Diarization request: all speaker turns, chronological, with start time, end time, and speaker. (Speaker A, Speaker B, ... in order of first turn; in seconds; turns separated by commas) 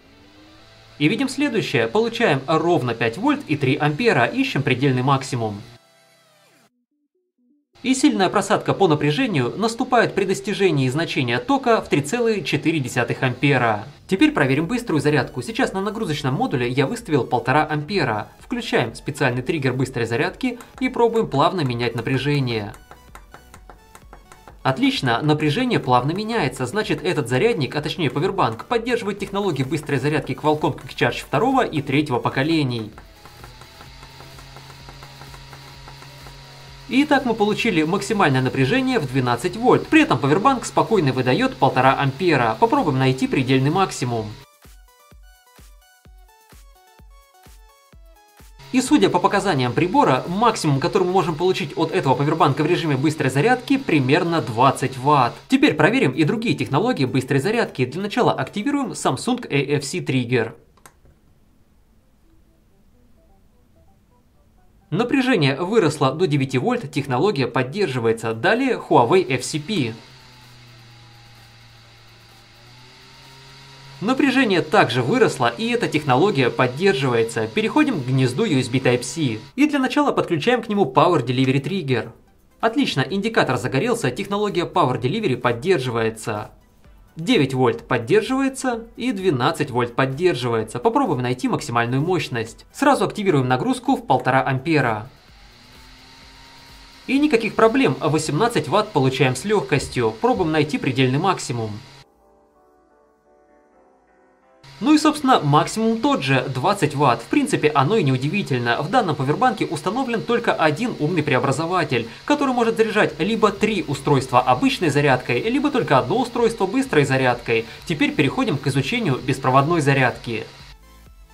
Speaker A: 1.0-5.6, Speaker A: 7.8-22.8, Speaker A: 24.6-32.9, Speaker A: 36.9-44.4, Speaker A: 48.7-60.6, Speaker A: 64.9-70.0, Speaker A: 74.0-86.5, Speaker A: 87.2-95.1, Speaker A: 97.1-101.8, Speaker A: 104.8-120.5